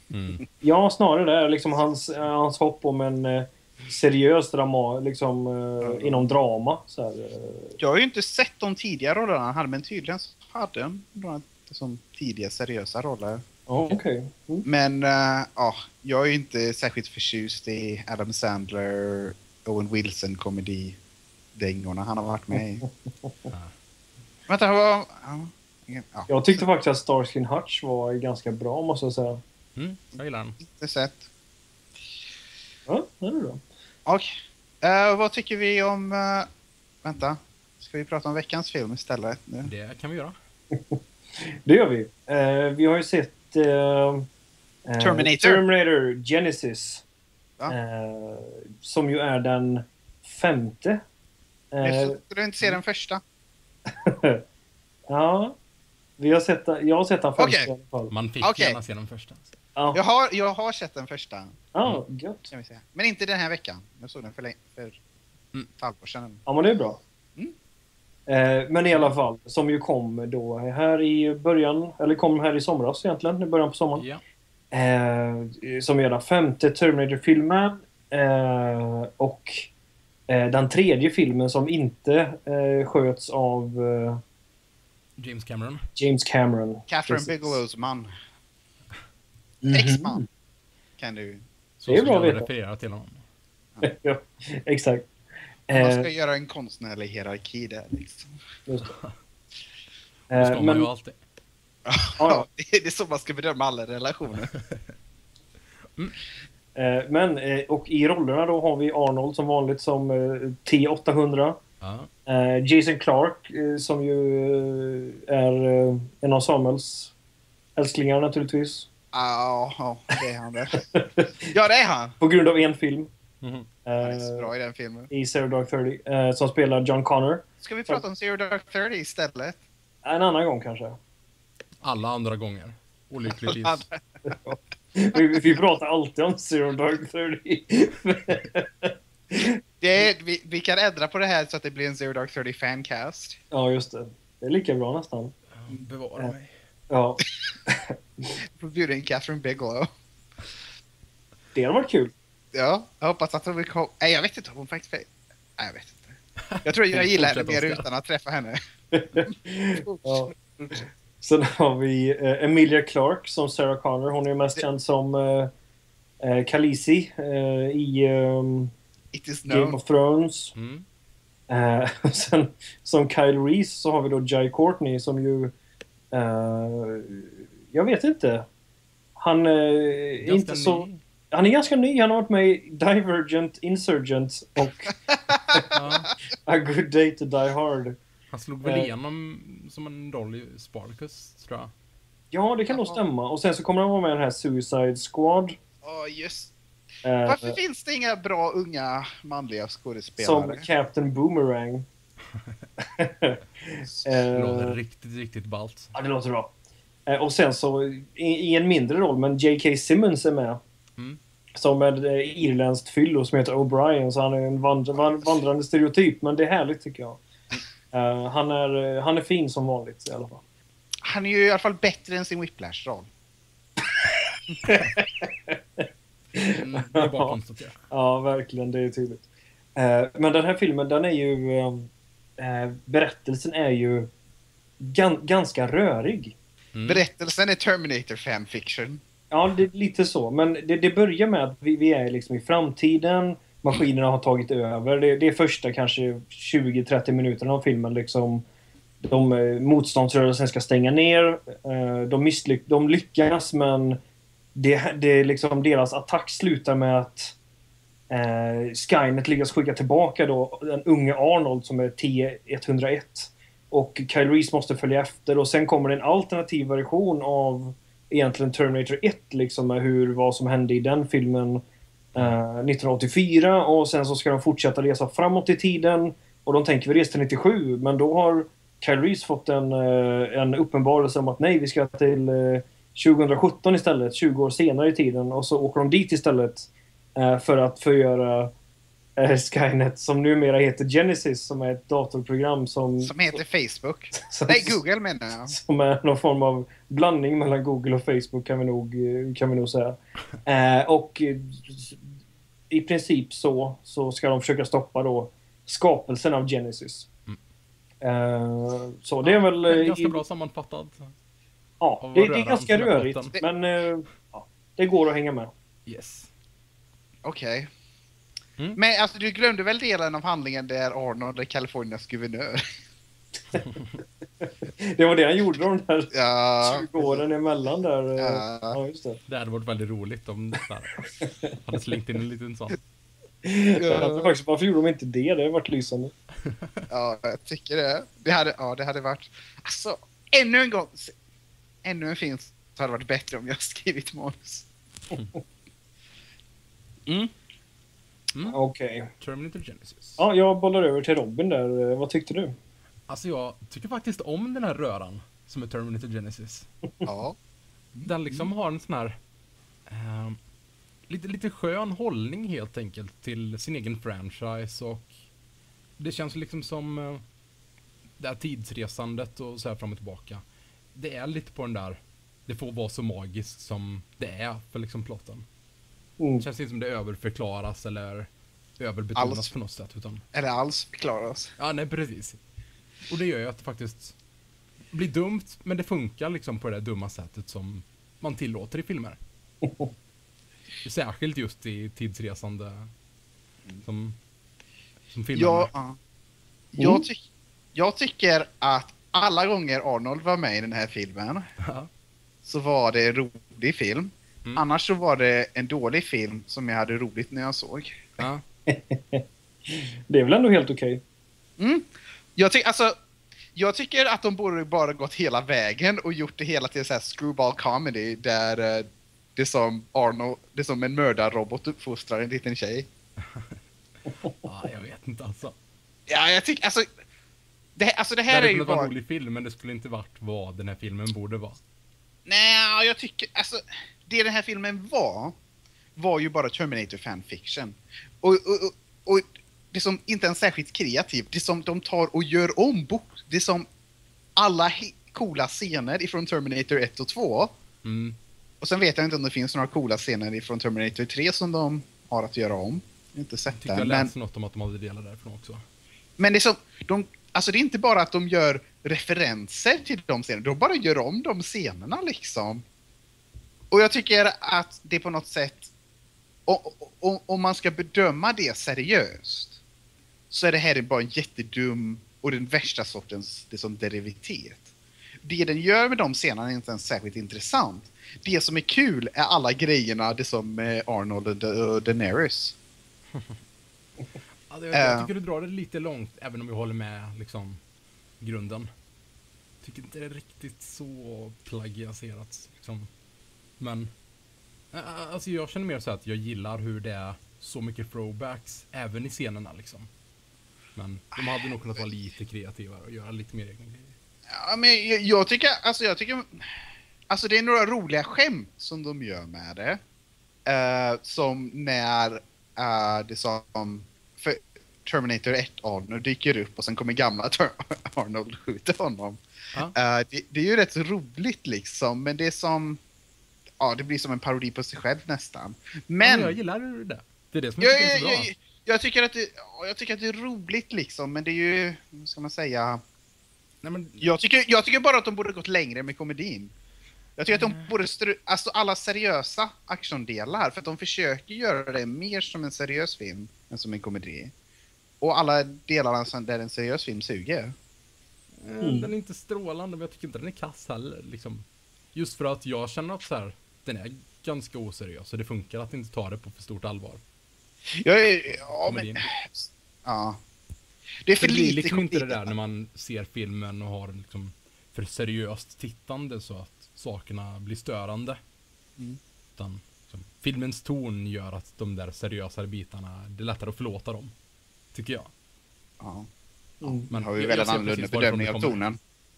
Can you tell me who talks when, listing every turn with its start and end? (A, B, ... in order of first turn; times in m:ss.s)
0:00.1-0:00.4 A
0:00.6-0:07.8 B
0:05.8-0:06.3 C
0:07.8-0:13.4 C
0:13.7-0:14.6 B
0:14.6-0:21.0 C
0:21.5-0:22.8 C
0:22.8-0:23.3 B
0:24.5-0:26.6 C
0:26.3-0:29.4 B
0:29.8-0:30.6 A
0:30.6-0:31.3 C
0:32.9-0:33.6 B
0:34.0-0:36.5 C
0:37.0-0:39.7 C
0:39.6-0:40.4 A
0:40.7-0:44.3 B
0:44.9-0:47.0 B
0:45.0-0:45.6 C
0:47.7-0:51.0 B
0:51.7-0:52.2 B
0:51.8-0:53.2 C
0:53.9-0:54.4 B
0:55.1-0:55.6 B
0:56.2-0:58.1 B
0:57.4-0:57.7 C
0:58.1-0:59.5 A
0:58.4-0:58.8 C
0:59.9-1:01.6 C
1:01.7-1:02.5 B
1:02.5-1:05.0 C
1:05.7-1:06.4 C
1:06.4-1:07.0 B
1:08.3-1:14.0 B
1:14.0-1:14.2 A
1:14.7-1:19.7 B
1:20.3-1:24.2 B
1:25.2-1:25.8 A
1:26.0-1:27.6 B
1:26.9-1:28.1 C
1:29.6-1:30.2 B
1:29.7-1:30.2 C
1:31.0-1:31.4 C
1:31.8-1:33.2 A
1:31.9-1:32.5 B
1:33.8-1:35.1 B
1:35.7-1:36.1 B
1:35.7-1:38.3 C
1:38.7-1:38.9 B
1:38.9-1:39.1 A
1:40.3-1:40.9 B
1:40.3-1:41.2 A
1:41.8-1:44.5 C
1:42.2-1:42.5 B
1:44.5-1:44.9 A
1:46.7-1:51.6 B
1:51.8-1:52.1 A
1:52.3-1:57.1 B
1:57.8-1:58.9 B
1:59.1-2:00.9 C
2:00.8-2:01.3 B
2:01.4-2:02.2 C
2:02.2-2:03.1 B
2:03.4-2:03.7 A
2:03.8-2:04.5 B
2:04.0-2:05.1 C
2:05.1-2:08.0 B
2:07.6-2:09.6 C
2:10.0-2:11.0 B
2:11.8-2:13.8 A
2:13.3-2:14.0 C
2:14.2-2:19.6 B
2:19.8-2:23.4 C
2:23.5-2:25.3 B
2:25.6-2:26.5 A
2:26.9-2:28.4 B
2:28.6-2:29.9 C
2:31.5-2:32.1 B
2:32.5-2:36.1 C
2:36.4-2:37.8 A
2:36.6-2:38.6 C
2:38.9-2:40.3 B
2:39.2-2:40.8 C
2:41.2-2:45.5 B
2:46.2-2:48.7 B
2:49.1-2:49.8 C
2:49.5-2:50.5 B
2:50.5-2:50.8 A
2:51.5-2:55.5 B
2:56.1-2:58.5 B
2:59.2-3:04.9 B
3:00.2-3:01.0 A
3:05.1-3:05.8 C
3:05.7-3:06.1 A
3:06.4-3:08.0 B
3:08.3-3:11.7 A
3:08.6-3:08.9 B
3:12.3-3:15.6 B
3:12.7-3:13.0 C
3:15.8-3:16.5 C
3:17.0-3:17.6 B
3:17.2-3:20.6 C
3:20.2-3:21.8 B
3:22.9-3:24.8 B
3:24.3-3:25.9 A
3:25.9-3:26.5 B
3:27.1-3:30.6 B
3:31.5-3:37.2 B
3:37.9-3:40.4 B
3:41.0-3:43.1 C
3:44.6-3:47.4 B
3:46.5-3:47.8 A
3:47.9-3:49.2 B
3:49.8-3:54.1 B
3:54.8-3:56.3 B
3:56.7-3:57.0 A
3:56.8-3:59.0 C
3:59.3-4:08.4 B
4:09.0-4:14.0 B
4:14.5-4:17.4 B
4:18.1-4:31.6 B
4:32.1-4:48.5 B
4:49.2-4:53.3 B
4:53.0-4:55.5 C
4:54.1-4:54.8 B
4:55.5-5:02.0 B
5:02.7-5:07.1 B
5:08.0-5:10.2 B
5:09.2-5:11.1 A
5:11.8-5:15.5 B
5:12.0-5:13.4 A
5:15.8-5:16.3 A
5:17.2-5:17.7 C
5:18.8-5:22.6 C
5:23.6-5:23.9 A
5:24.4-5:29.2 B
5:26.1-5:27.2 C
5:28.2-5:28.8 C
5:29.3-5:32.8 A
5:31.2-5:31.5 B
5:33.4-5:36.1 B
5:33.8-5:34.3 C
5:36.4-5:36.7 A
5:36.9-5:41.1 C
5:41.8-5:44.7 C
5:48.5-5:49.1 B
5:49.2-5:50.2 A
5:50.2-5:52.5 B
5:53.1-5:56.7 A
5:57.0-5:57.4 C
5:58.0-5:58.4 C
5:58.0-5:59.2 A
5:59.9-6:00.4 A
6:01.1-6:05.1 A
6:06.0-6:07.2 A
6:08.2-6:10.4 A
6:10.9-6:15.4 A
6:16.2-6:16.4 B
6:16.4-6:20.2 A
6:19.1-6:19.5 C
6:20.3-6:21.5 C
6:21.6-6:22.4 A
6:23.1-6:24.1 A
6:24.9-6:29.2 A
6:29.6-6:29.9 B
6:30.8-6:32.9 A
6:33.8-6:34.2 A
6:35.1-6:35.7 A
6:35.3-6:36.0 C
6:36.7-6:37.2 C
6:37.7-6:41.4 C
6:41.6-6:41.9 A
6:42.4-6:48.0 C
6:48.7-6:51.0 B
6:51.6-6:52.9 C
6:53.5-7:02.9 C
7:03.2-7:03.6 A
7:04.3-7:05.5 A
7:06.1-7:06.9 C
7:07.8-7:08.9 C
7:08.3-7:11.6 A
7:12.2-7:15.4 C
7:16.0-7:23.7 C
7:24.4-7:27.5 C
7:27.8-7:28.2 A
7:28.6-7:34.1 C
7:33.6-7:35.6 A
7:36.2-7:42.6 C
7:43.7-7:45.7 C
7:46.4-7:49.6 C
7:50.3-7:54.7 C
7:55.2-8:02.6 C
8:04.5-8:07.6 A
8:04.7-8:05.1 C
8:08.2-8:08.7 A
8:09.6-8:12.9 A
8:13.6-8:13.9 A
8:14.7-8:19.9 A
8:20.8-8:23.9 A
8:21.2-8:21.5 C
8:24.3-8:26.5 C
8:27.1-8:29.8 C
8:30.4-8:39.2 C
8:39.7-8:42.8 C
8:43.6-8:46.3 C
8:46.0-8:48.3 A
8:47.6-8:52.8 C
8:53.6-8:54.1 A
8:54.0-8:56.5 C
8:57.2-9:04.3 C
8:57.3-8:57.7 A
9:05.0-9:07.5 C
9:08.4-9:17.0 A
9:08.6-9:08.9 B
9:17.7-9:20.2 C
9:18.6-9:19.1 A
9:21.0-9:22.3 C
9:21.2-9:28.2 A
9:29.4-9:34.1 A
9:34.7-9:35.1 A
9:35.8-9:36.1 C
9:36.6-9:36.9 B
9:36.6-9:38.8 C
9:36.9-9:38.6 A